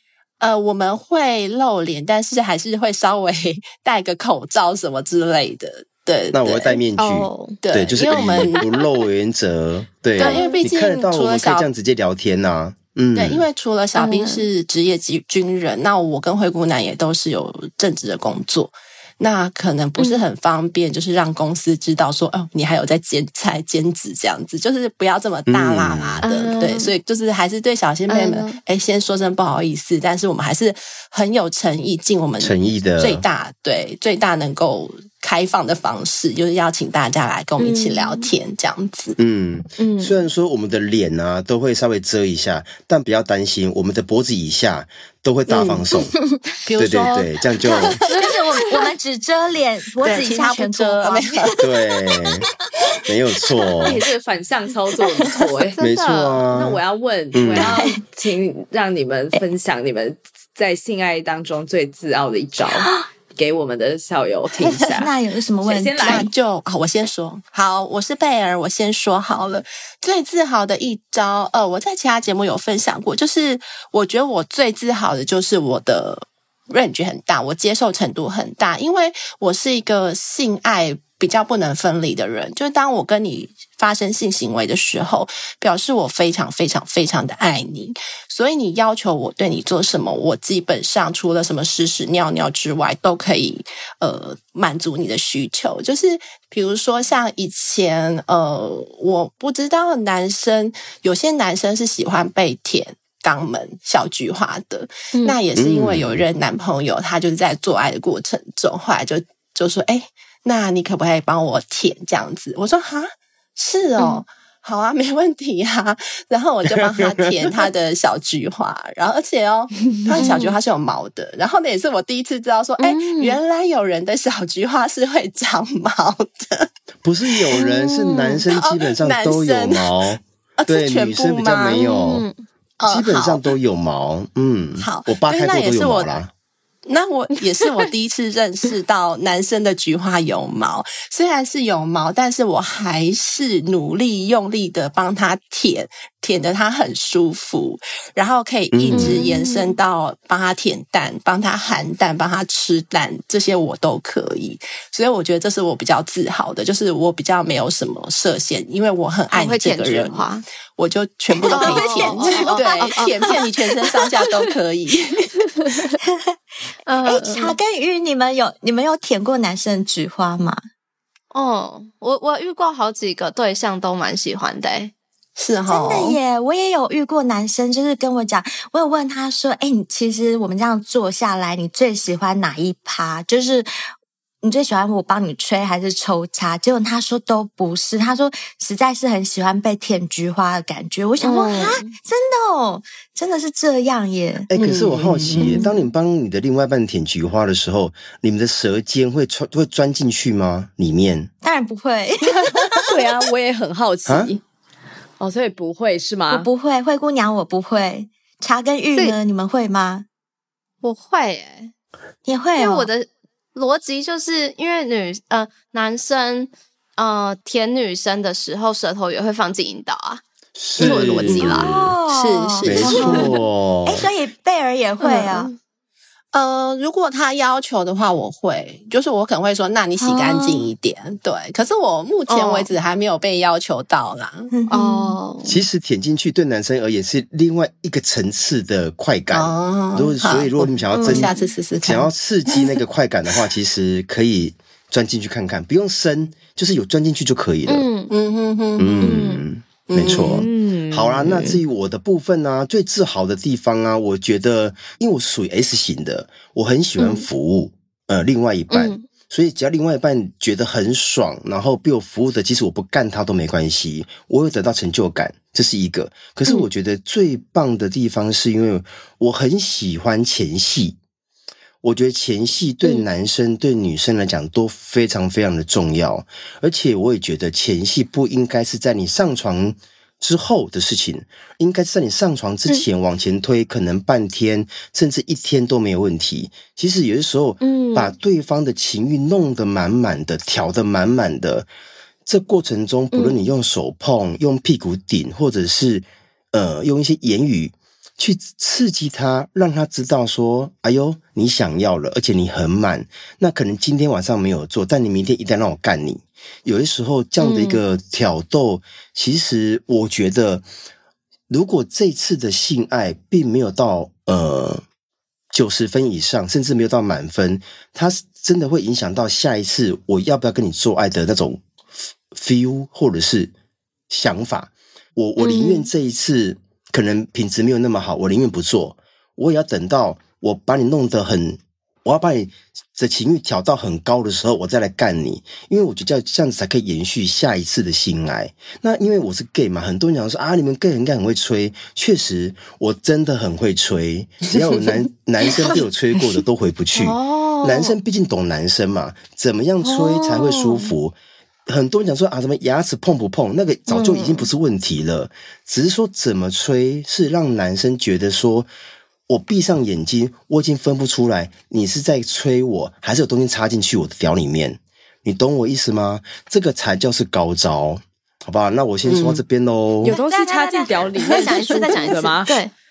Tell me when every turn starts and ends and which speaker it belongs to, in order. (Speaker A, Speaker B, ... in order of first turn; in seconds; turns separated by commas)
Speaker A: 0.4-6.8, Speaker B: 6.3-13.5, Speaker C: 7.0-7.6, Speaker A: 7.6-8.6, Speaker A: 10.2-11.7, Speaker C: 10.2-10.6, Speaker A: 13.2-39.2, Speaker C: 14.0-14.4, Speaker B: 25.5-26.2, Speaker C: 26.2-26.9, Speaker C: 28.1-28.6, Speaker B: 32.4-33.2, Speaker C: 37.6-38.3, Speaker B: 39.2-46.1, Speaker C: 39.8-40.2, Speaker A: 45.5-45.8, Speaker A: 46.6-48.0, Speaker B: 46.8-48.0, Speaker D: 48.1-51.5, Speaker A: 50.0-52.1, Speaker B: 51.6-52.5, Speaker B: 53.0-54.0, Speaker E: 53.8-65.1, Speaker C: 55.8-56.2, Speaker B: 55.8-56.8, Speaker B: 57.3-57.8, Speaker D: 57.6-58.0, Speaker D: 62.6-63.0, Speaker A: 64.6-65.0, Speaker D: 64.9-66.3, Speaker E: 65.6-66.3, Speaker A: 66.0-126.7, Speaker B: 105.6-106.1, Speaker C: 114.0-114.2, Speaker C: 120.1-120.6, Speaker C: 122.8-123.4, Speaker B: 127.0-132.3, Speaker A: 127.4-130.0, Speaker A: 130.6-131.8, Speaker C: 131.7-132.3, Speaker A: 132.8-133.4, Speaker B: 132.9-136.3, Speaker A: 134.8-136.2, Speaker A: 136.9-165.4, Speaker B: 148.7-149.2, Speaker C: 148.9-149.7, Speaker C: 159.3-160.4, Speaker D: 161.3-163.4, Speaker C: 161.5-163.4, Speaker C: 165.6-165.9, Speaker D: 166.0-166.4, Speaker C: 166.9-167.6, Speaker D: 167.0-170.6, Speaker C: 171.3-174.9, Speaker A: 175.4-176.2, Speaker D: 175.7-183.7, Speaker D: 184.4-194.5, Speaker C: 191.2-191.9, Speaker B: 194.5-201.3, Speaker A: 194.6-195.7, Speaker D: 201.4-202.6, Speaker E: 202.8-204.4, Speaker B: 204.1-204.3, Speaker E: 205.2-206.5, Speaker D: 206.3-210.1, Speaker C: 210.8-211.7, Speaker D: 212.3-212.9, Speaker C: 212.6-220.2, Speaker B: 220.6-221.9, Speaker C: 220.8-221.7, Speaker A: 220.8-223.3, Speaker D: 221.4-223.3, Speaker B: 222.6-224.1, Speaker D: 223.8-225.5, Speaker C: 225.0-225.6, Speaker A: 226.3-234.5, Speaker C: 230.1-230.3, Speaker C: 232.3-232.7, Speaker D: 234.5-235.2, Speaker C: 234.7-235.6, Speaker B: 235.4-247.9, Speaker A: 239.3-242.6, Speaker C: 247.7-248.1, Speaker A: 248.1-249.3, Speaker B: 248.8-271.0, Speaker C: 249.0-249.4, Speaker A: 249.9-250.4, Speaker E: 250.1-251.6, Speaker C: 257.0-257.3, Speaker C: 258.7-259.1, Speaker B: 271.8-291.7, Speaker C: 287.6-288.1, Speaker B: 292.3-310.7, Speaker C: 307.4-307.8, Speaker B: 311.5-314.8, Speaker B: 315.5-321.6, Speaker B: 322.3-323.5, Speaker B: 324.1-351.1, Speaker C: 325.4-325.9, Speaker C: 346.9-348.0, Speaker C: 350.0-350.9, Speaker B: 351.7-358.7, Speaker C: 353.9-354.5, Speaker B: 359.3-370.2, Speaker A: 369.1-369.4, Speaker E: 370.0-372.6, Speaker C: 370.0-372.7